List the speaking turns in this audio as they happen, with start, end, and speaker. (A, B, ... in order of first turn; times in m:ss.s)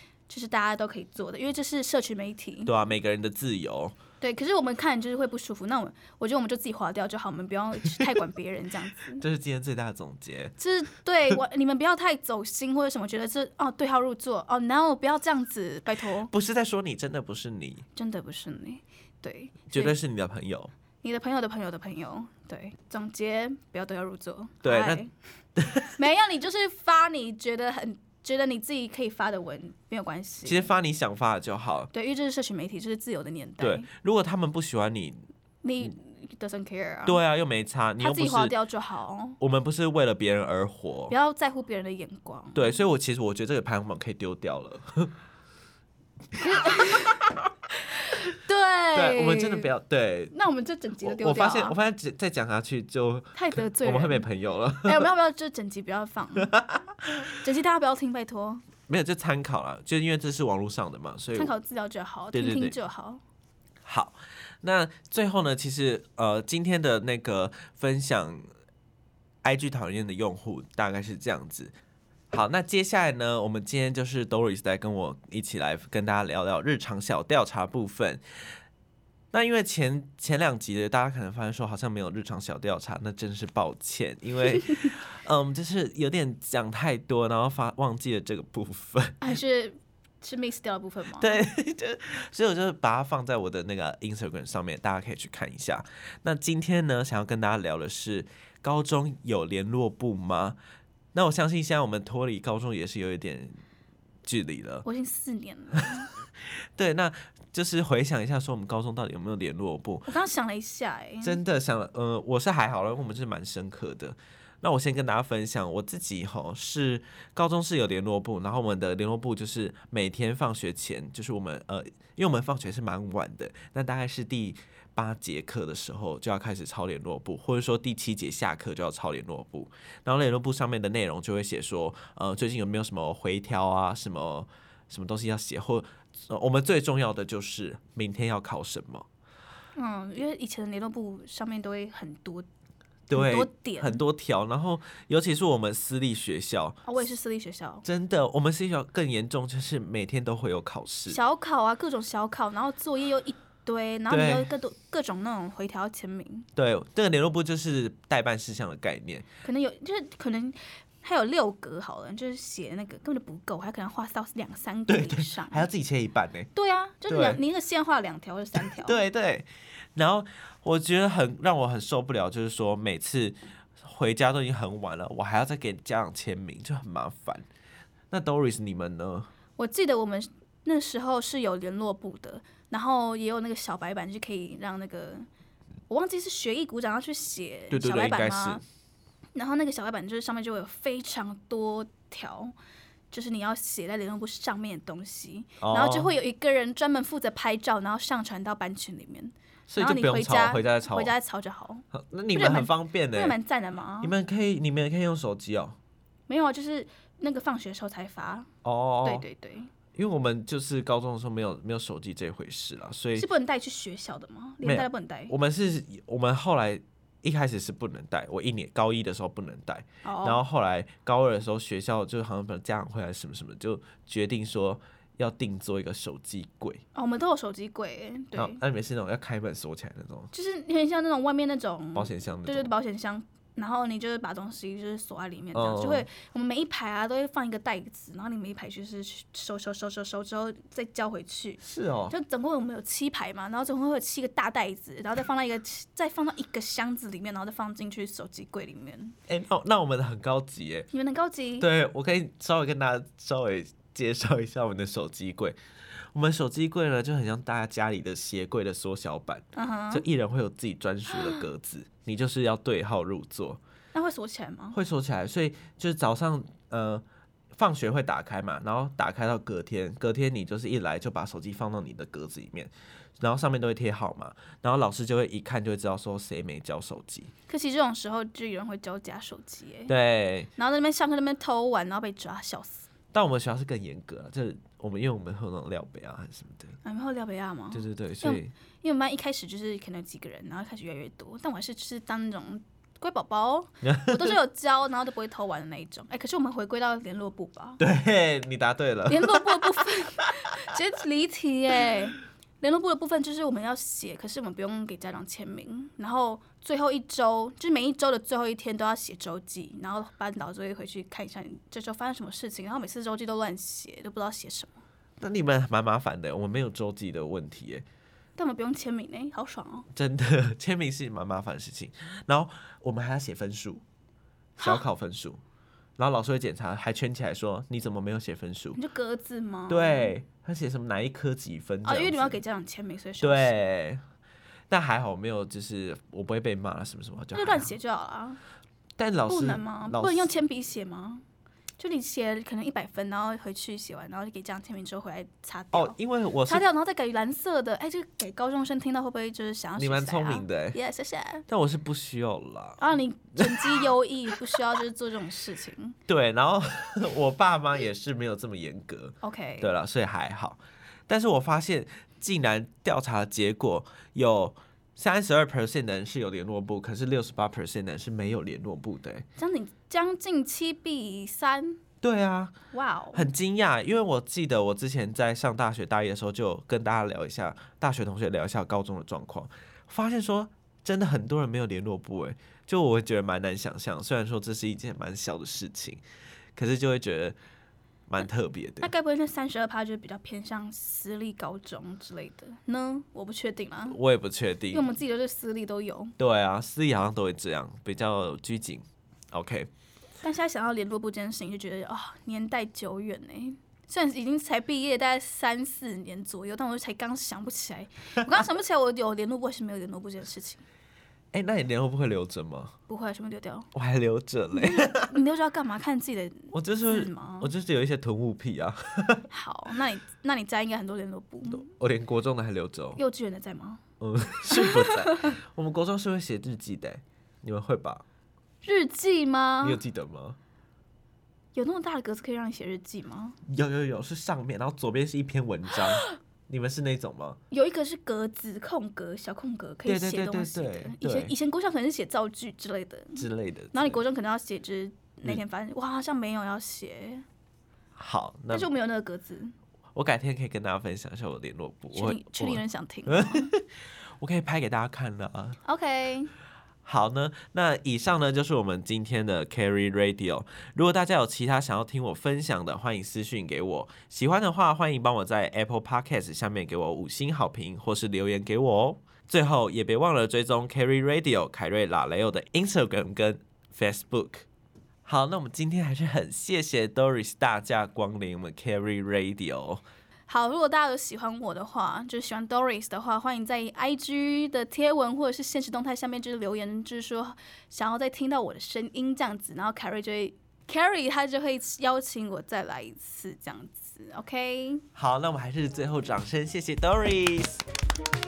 0:00.3-0:02.7 A
0:02.7-0:04.0 B
0:04.2-0:09.2 A
0:09.2-0:10.5 B
0:10.6-0:16.3 A
0:16.3-0:17.8 B
0:18.0-0:20.0 A
0:19.7-0:20.7 B
0:21.0-0:25.1 A
0:24.6-0:25.0 B
0:25.6-0:26.0 B
0:26.0-0:30.7 A
0:30.4-0:31.9 B
0:31.9-0:33.9 A
0:33.6-0:35.3 B
0:35.6-0:37.2 A
0:37.1-0:38.5 B
0:38.0-0:39.4 A
0:39.4-0:41.1 B
0:41.1-0:42.8 A
0:42.5-0:45.1 B
0:46.4-0:47.3 A
0:46.4-0:47.2 B
0:47.9-0:49.7 A
0:48.9-0:50.3 B
0:50.3-0:51.8 A
0:51.0-0:55.1 B
0:53.4-0:54.3 A
0:54.8-0:56.6 A
0:56.4-0:57.3 B
0:57.4-0:58.6 A
0:58.9-1:01.5 B
1:01.3-1:03.2 A
1:02.3-1:02.8 B
1:03.8-1:08.5 B
1:09.4-1:11.7 B
1:12.3-1:18.2 B
1:19.3-1:29.2 B
1:29.2-1:31.4 A
1:31.2-1:40.6 B
1:41.1-1:43.6 B
1:44.2-1:44.9 B
1:44.8-1:46.1 A
1:46.4-1:50.1 B
1:50.1-1:51.4 A
1:51.2-2:19.1 B
2:19.8-2:22.5 A
2:23.1-2:26.8 B
2:23.1-2:24.0 A
2:26.9-2:27.8 A
2:27.8-2:31.2 B
2:31.1-2:36.5 A
2:34.1-2:34.5 B
2:36.6-2:39.3 B
2:39.4-2:45.7 A
2:44.9-2:46.5 B
2:46.6-2:49.0 A
2:47.1-2:47.4 B
2:48.6-2:57.5 B
2:58.1-2:59.3 B
2:59.6-3:05.3 A
3:05.9-3:08.6 A
3:07.7-3:08.6 B
3:09.4-3:12.5 A
3:13.1-3:24.1 A
3:15.6-3:16.1 B
3:19.7-3:21.1 B
3:21.9-3:23.4 B
3:24.0-3:25.8 B
3:26.3-3:28.5 A
3:28.6-3:29.3 B
3:29.0-3:29.7 A
3:30.0-3:33.3 B
3:33.2-3:35.3 A
3:34.6-3:46.8 B
3:40.0-3:40.4 A
3:47.0-3:48.6 A
3:48.4-3:50.3 B
3:50.3-4:09.2 A
3:52.0-3:52.7 B
3:55.6-3:56.1 B
4:01.6-4:02.2 B
4:09.3-4:10.9 B
4:10.9-4:11.7 A
4:11.6-4:15.6 B
4:16.1-4:23.6 B
4:19.6-4:20.0 A
4:21.1-4:21.4 A
4:23.9-4:24.8 A
4:24.7-4:37.3 B
4:37.5-4:39.9 A
4:39.9-4:40.5 B
4:40.6-4:42.9 A
4:43.1-4:46.8 B
4:46.8-4:57.8 A
4:47.7-4:48.5 B
4:53.8-4:54.3 B
4:57.8-4:59.8 B
4:59.1-5:14.8 A
5:15.2-5:17.8 B
5:18.4-5:19.9 A
5:19.9-5:23.8 B
5:24.6-5:24.8 A
5:24.6-5:25.4 B
5:26.0-5:28.8 B
5:28.8-5:30.1 A
5:29.7-5:32.4 B
5:31.8-5:33.6 A
5:33.2-5:34.0 B
5:34.7-5:37.7 B
5:37.3-5:38.4 A
5:39.0-5:40.3 B
5:39.3-5:41.2 A
5:41.8-5:51.4 A
5:45.7-5:46.7 B
5:49.8-5:50.8 B
5:51.5-5:52.8 B
5:52.8-5:56.0 A
5:53.4-5:54.6 B
5:56.1-6:09.3 B
5:59.2-5:59.8 A
6:09.4-6:11.8 A
6:12.0-6:12.5 B
6:12.7-6:13.3 A
6:13.1-6:26.0 B
6:26.6-6:27.4 B
6:28.1-6:28.9 B
6:28.8-6:34.0 A
6:33.9-6:34.9 B
6:34.7-6:36.2 A
6:36.2-6:39.7 B
6:40.2-6:50.6 A
6:51.3-6:52.8 B
6:52.9-6:53.7 A
6:53.7-6:55.1 B
6:54.5-6:57.5 A
6:56.5-6:59.3 B
6:59.3-7:01.7 A
7:01.5-7:03.0 B
7:03.0-7:03.8 A
7:04.0-7:08.0 B
7:04.5-7:05.4 A
7:08.6-7:09.8 A
7:09.6-7:10.4 B
7:11.5-7:13.4 A
7:13.5-7:17.4 B
7:17.5-7:27.3 A
7:19.9-7:21.3 B
7:23.2-7:24.0 B
7:28.0-7:28.7 B
7:28.5-7:29.6 A
7:29.9-7:33.7 B
7:31.9-7:33.5 A
7:34.2-7:35.6 B
7:35.6-7:36.3 A
7:36.8-7:54.5 B
7:55.0-7:59.8 B
8:00.3-8:14.8 A
8:15.0-8:17.6 B